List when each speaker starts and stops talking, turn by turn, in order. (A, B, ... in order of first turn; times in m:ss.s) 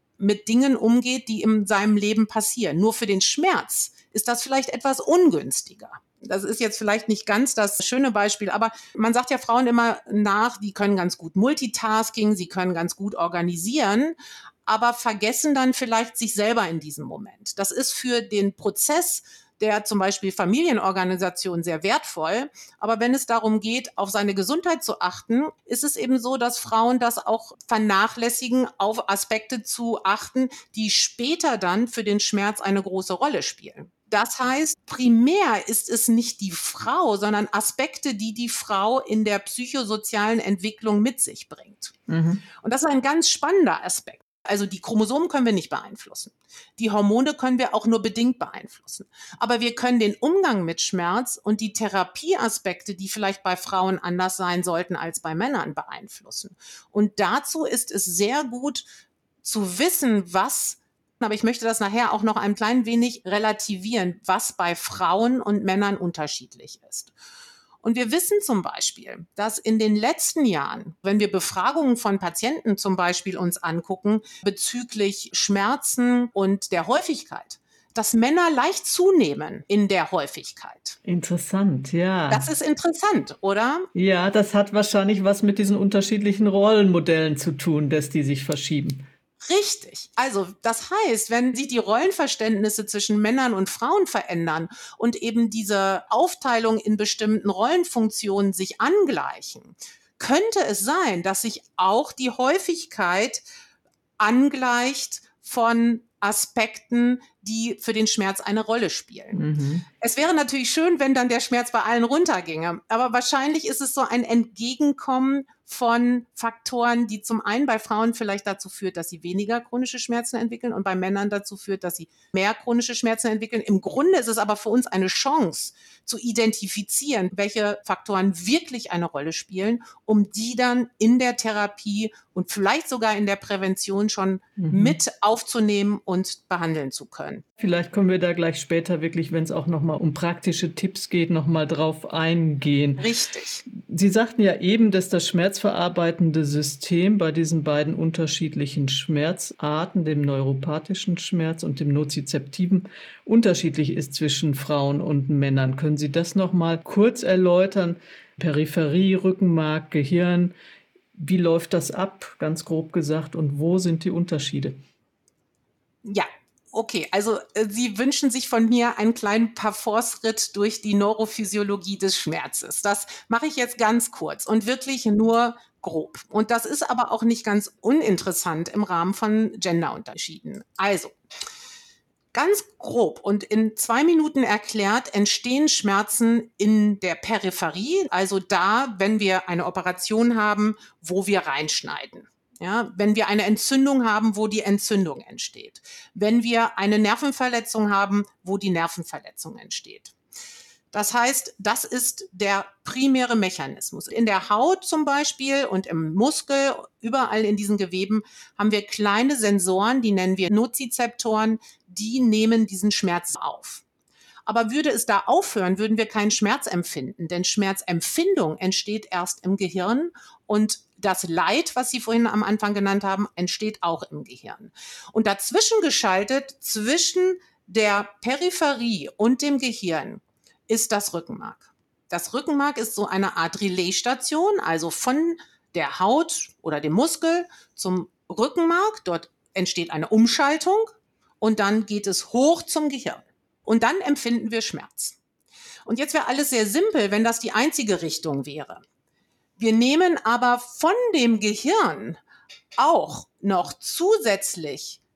0:00.2-0:42.0 A
0:42.1-0:42.4 B
0:42.6-0:58.8 A
0:59.4-1:07.1 A
1:07.8-1:21.0 A
1:21.1-1:22.5 B
1:22.3-1:23.9 A
1:24.0-1:29.0 B
1:29.5-1:43.4 A
1:44.2-1:49.4 A
1:49.3-1:49.8 B
1:50.0-2:17.4 A
2:14.6-2:15.0 B
2:17.6-2:23.1 B
2:23.0-2:23.6 A
2:23.7-2:40.6 B
2:41.2-2:44.8 B
2:46.0-3:01.1 A
3:02.3-3:20.2 A
3:20.9-3:33.8 A
3:34.5-4:05.2 A
4:05.9-4:08.8 A
4:09.6-4:12.2 A
4:12.8-4:15.0 A